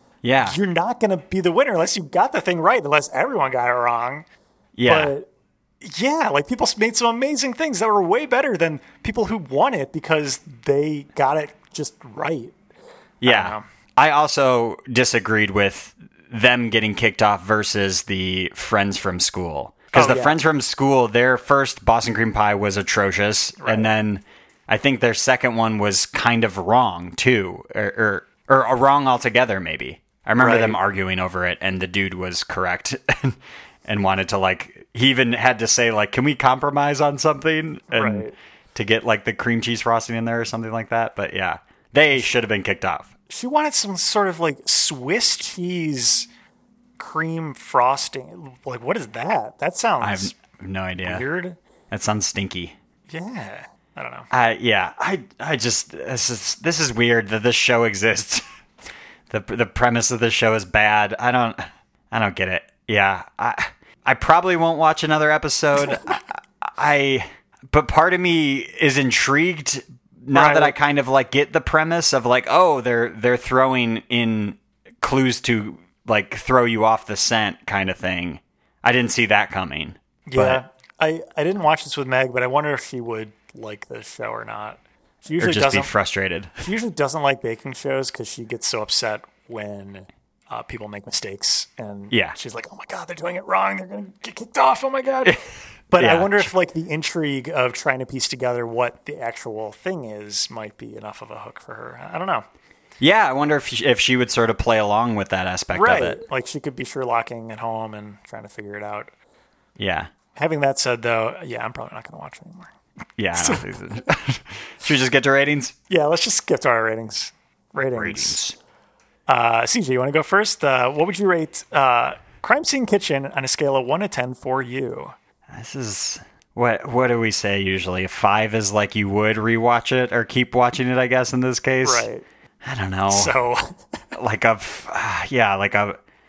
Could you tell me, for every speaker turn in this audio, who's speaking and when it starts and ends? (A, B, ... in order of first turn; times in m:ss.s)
0:00.2-0:00.6 A
0:00.4-0:04.2 B
0:04.8-0:05.1 A
0:04.8-0:05.3 B
0:05.8-0:12.6 B
0:13.2-0:43.1 A
0:13.2-0:13.6 B
0:19.9-0:20.3 B
0:23.6-0:23.9 B
0:30.4-0:30.8 B
0:37.9-0:38.3 B
0:43.3-0:46.3 B
0:47.0-0:50.4 B
0:50.0-0:51.2 A
0:51.0-0:51.6 B
0:51.9-0:52.8 A
0:53.1-0:54.3 B
0:54.3-0:58.4 A
0:59.3-1:20.6 A
1:10.3-1:10.7 B
1:20.3-1:25.9 B
1:25.4-1:26.7 A
1:26.6-1:42.4 B
1:36.0-1:36.5 A
1:43.0-1:46.2 A
1:45.7-1:49.1 B
1:49.8-1:50.1 A
1:50.3-1:52.7 B
1:53.2-1:55.7 A
1:53.3-1:53.6 B
1:55.9-1:58.4 B
1:57.9-1:58.6 A
1:59.3-2:05.1 B
2:05.5-2:12.1 A
2:11.8-2:12.2 B
2:12.6-2:13.3 A
2:13.1-2:13.8 B
2:14.1-2:16.0 A